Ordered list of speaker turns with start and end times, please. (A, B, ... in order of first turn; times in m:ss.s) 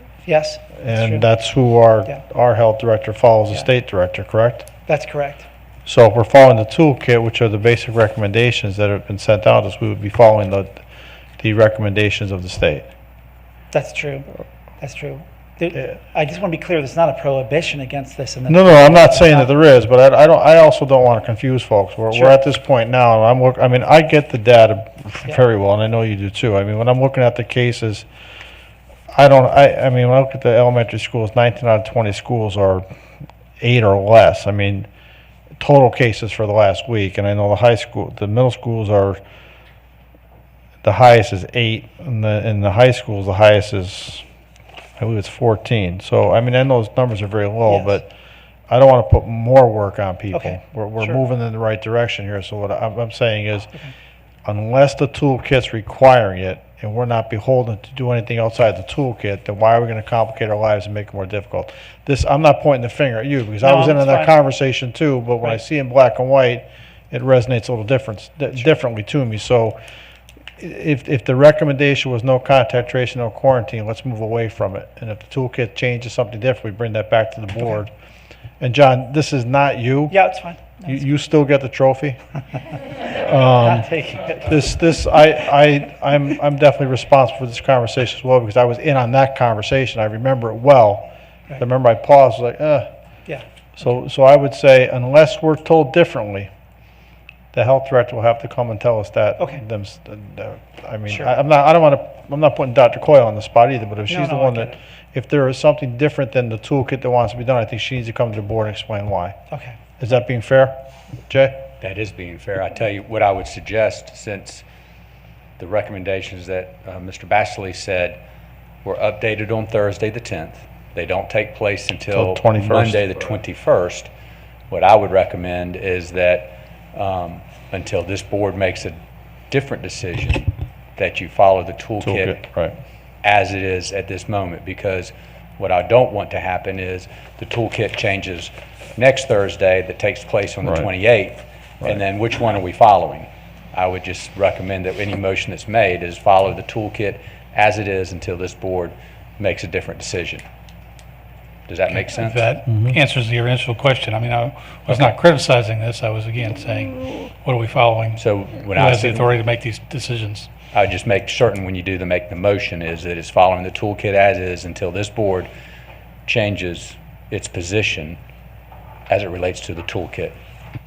0:00.3-0:01.3 A
0:00.8-0:04.7 B
0:04.9-0:05.5 A
0:05.9-0:10.8 B
0:11.4-0:12.9 B
0:13.7-0:19.5 A
0:18.5-0:28.1 B
0:29.1-0:32.8 B
0:33.6-0:34.9 B
0:35.6-0:39.2 B
0:40.8-0:44.2 B
0:45.0-0:48.1 B
0:47.7-0:48.0 A
0:48.7-0:53.7 B
0:50.3-0:51.2 A
0:54.4-1:09.8 B
1:03.6-1:04.3 A
1:10.6-1:17.9 B
1:18.6-1:20.2 B
1:20.1-1:21.0 A
1:20.8-1:22.2 B
1:23.0-1:23.9 B
1:23.5-1:24.5 A
1:24.4-1:32.9 B
1:33.8-1:36.5 B
1:37.5-1:49.4 B
1:44.1-1:44.8 A
1:49.5-1:49.8 A
1:50.0-1:50.8 B
1:51.3-1:51.6 B
1:51.8-1:54.6 C
1:55.6-1:58.2 C
1:58.8-2:04.1 C
2:02.1-2:03.0 B
2:04.7-2:09.0 C
2:09.5-2:12.4 C
2:12.0-2:12.8 B
2:13.2-2:30.4 C
2:31.7-2:32.5 C
2:32.2-2:40.5 D
2:32.7-2:33.0 B
2:38.2-2:39.3 C
2:40.7-2:45.5 C
2:46.3-2:48.2 C
2:49.1-2:50.4 C